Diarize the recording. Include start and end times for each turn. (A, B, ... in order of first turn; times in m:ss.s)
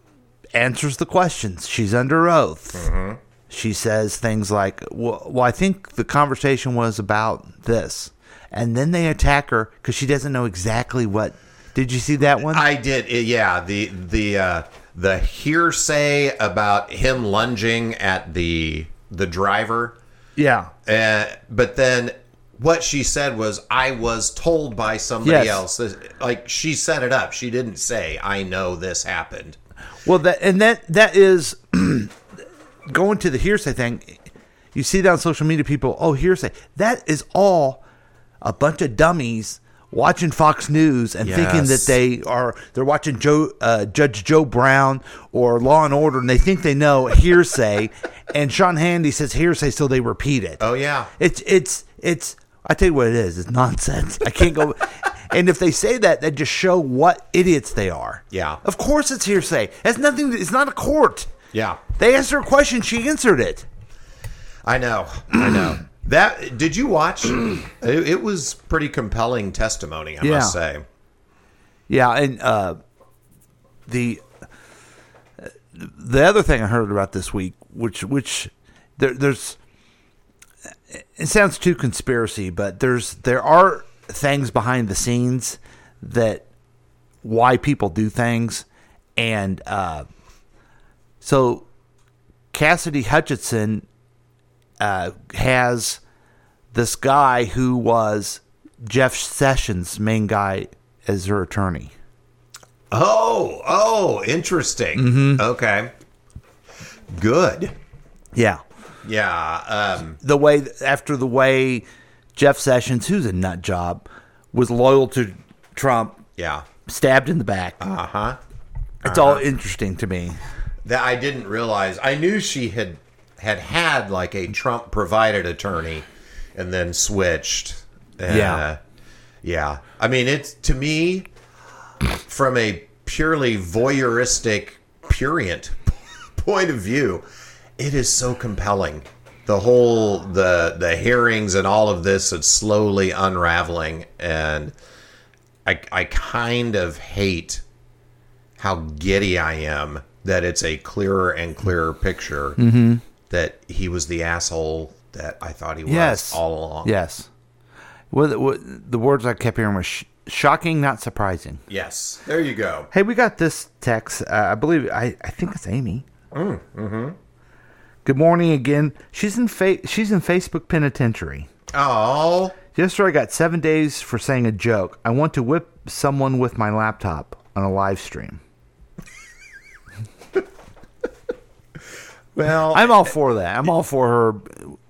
0:00.5-0:02.9 A
0:02.7-0:03.2 B
0:03.5-0:12.7 A
0:12.4-0:20.0 B
0:20.4-0:20.7 A
0:20.8-0:29.6 B
0:25.2-0:25.6 A
0:30.0-0:32.1 A
0:32.9-0:34.2 A
0:34.7-0:37.8 A
0:38.4-0:50.6 A
0:41.2-0:41.9 B
0:50.6-0:51.1 B
0:51.2-1:01.3 A
0:58.3-0:58.6 B
1:01.5-1:01.8 B
1:02.0-1:03.6 A
1:04.6-1:10.8 B
1:10.2-1:10.6 A
1:11.9-1:12.8 A
1:13.9-1:14.2 A
1:15.4-1:19.6 A
1:20.9-1:26.4 A
1:27.2-1:28.6 A
1:29.2-1:30.0 A
1:31.2-1:31.7 A
1:32.5-1:33.8 A
1:34.8-1:36.0 A
1:36.7-1:41.9 A
1:42.9-1:45.9 B
1:45.0-1:45.4 A
1:47.1-1:47.7 B
1:48.3-1:48.6 A
1:49.0-1:50.2 B
1:50.2-1:56.2 A
1:56.4-1:56.7 B
1:56.8-1:57.8 A
1:57.8-1:58.4 B
1:59.0-1:59.4 B
1:59.0-2:00.4 A
2:00.8-2:08.8 B
2:08.3-2:08.6 A
2:09.4-2:11.3 B
2:12.2-2:17.2 B
2:17.8-2:24.7 B
2:25.6-2:27.6 B
2:28.6-2:32.6 B
2:32.6-2:33.0 A
2:33.3-2:36.9 B
2:35.8-2:37.3 A
2:38.1-2:41.6 A
2:41.7-2:42.9 B
2:42.9-2:46.0 A
2:46.3-2:47.2 B
2:48.0-2:51.5 A
2:51.7-2:52.6 B
2:52.7-2:58.4 A
3:02.3-3:03.1 B
3:02.7-3:04.8 A